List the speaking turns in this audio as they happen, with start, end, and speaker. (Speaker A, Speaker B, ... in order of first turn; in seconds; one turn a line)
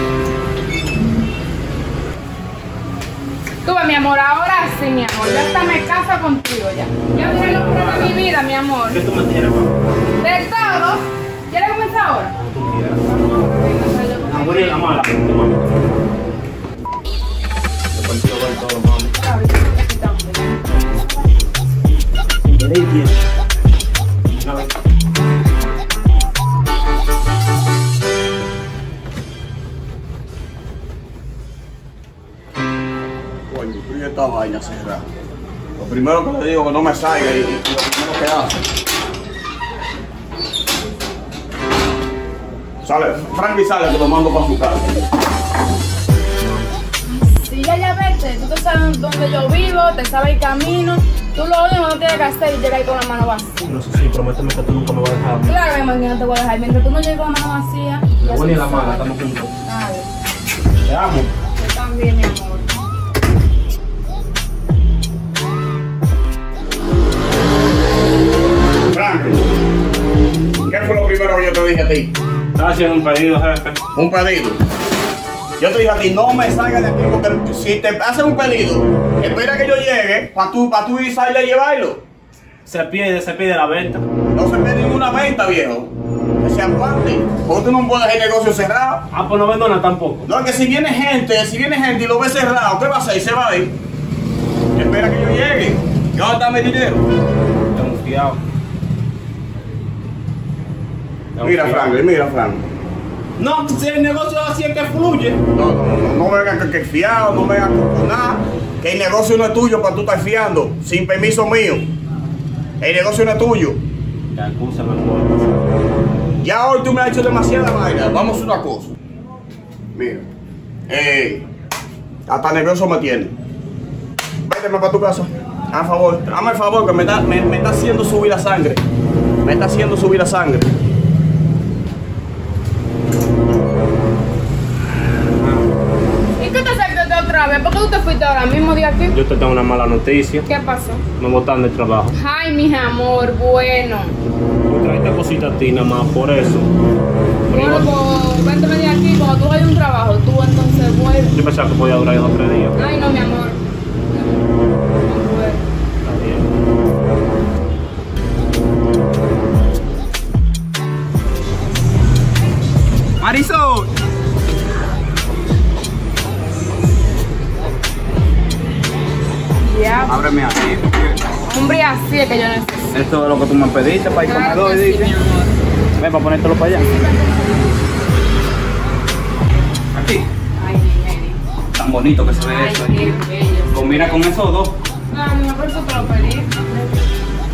Speaker A: 3.6-9.0
Speaker B: 7.1-8.2
Speaker B: 8.9-9.8
Speaker A: 10.2-12.3
Speaker B: 12.3-13.0
Speaker A: 13.0-14.9
Speaker B: 14.2-16.0
Speaker B: 17.9-19.1
Speaker A: 19.1-21.1
Speaker B: 22.4-23.2
Speaker B: 24.3-24.7
Speaker C: 33.5-35.0
Speaker C: 35.8-38.6
Speaker C: 42.8-45.1
Speaker A: 47.0-53.6
Speaker B: 53.6-55.6
Speaker A: 55.4-59.1
Speaker B: 58.2-59.5
Speaker A: 59.6-60.1
Speaker B: 60.8-61.3
Speaker A: 61.5-62.7
Speaker C: 68.9-69.5
Speaker C: 70.6-72.1
Speaker B: 72.5-73.8
Speaker C: 73.9-74.6
Speaker C: 75.6-82.0
Speaker B: 82.6-84.0
Speaker C: 84.3-89.0
Speaker B: 89.1-90.3
Speaker C: 90.2-93.7
Speaker C: 94.7-97.0
Speaker B: 97.7-98.4
Speaker B: 101.3-101.9
Speaker C: 101.4-102.6
Speaker B: 103.4-105.4
Speaker C: 105.5-111.9
Speaker C: 112.8-113.8
Speaker B: 114.3-115.7
Speaker C: 116.4-118.9
Speaker C: 119.9-120.3
Speaker C: 120.9-121.4
Speaker C: 122.3-123.3
Speaker C: 124.5-128.8
Speaker C: 129.4-130.7
Speaker A: 136.4-139.2
Speaker B: 139.1-140.4
Speaker A: 140.4-141.0
Speaker B: 141.2-142.1
Speaker A: 142.1-144.1
Speaker B: 144.7-146.7
Speaker B: 147.5-147.9
Speaker A: 147.5-151.3
Speaker B: 151.3-152.8
Speaker A: 152.8-153.6
Speaker A: 154.1-154.4
Speaker A: 155.0-155.6
Speaker B: 156.0-156.4
Speaker B: 163.2-163.8
Speaker D: 163.2-163.8
Speaker A: 169.6-170.3
Speaker D: 170.2-171.2
Speaker A: 171.5-172.9
Speaker B: 172.9-175.1
Speaker D: 173.0-174.3
Speaker A: 174.2-175.5
Speaker B: 176.0-176.8
Speaker D: 176.3-176.7
Speaker A: 176.7-177.8
Speaker B: 179.9-180.2
Speaker A: 180.6-181.4
Speaker D: 181.8-182.9
Speaker B: 181.8-182.9
Speaker A: 182.3-184.2
Speaker B: 183.7-184.7
Speaker D: 183.8-184.6
Speaker A: 185.1-187.0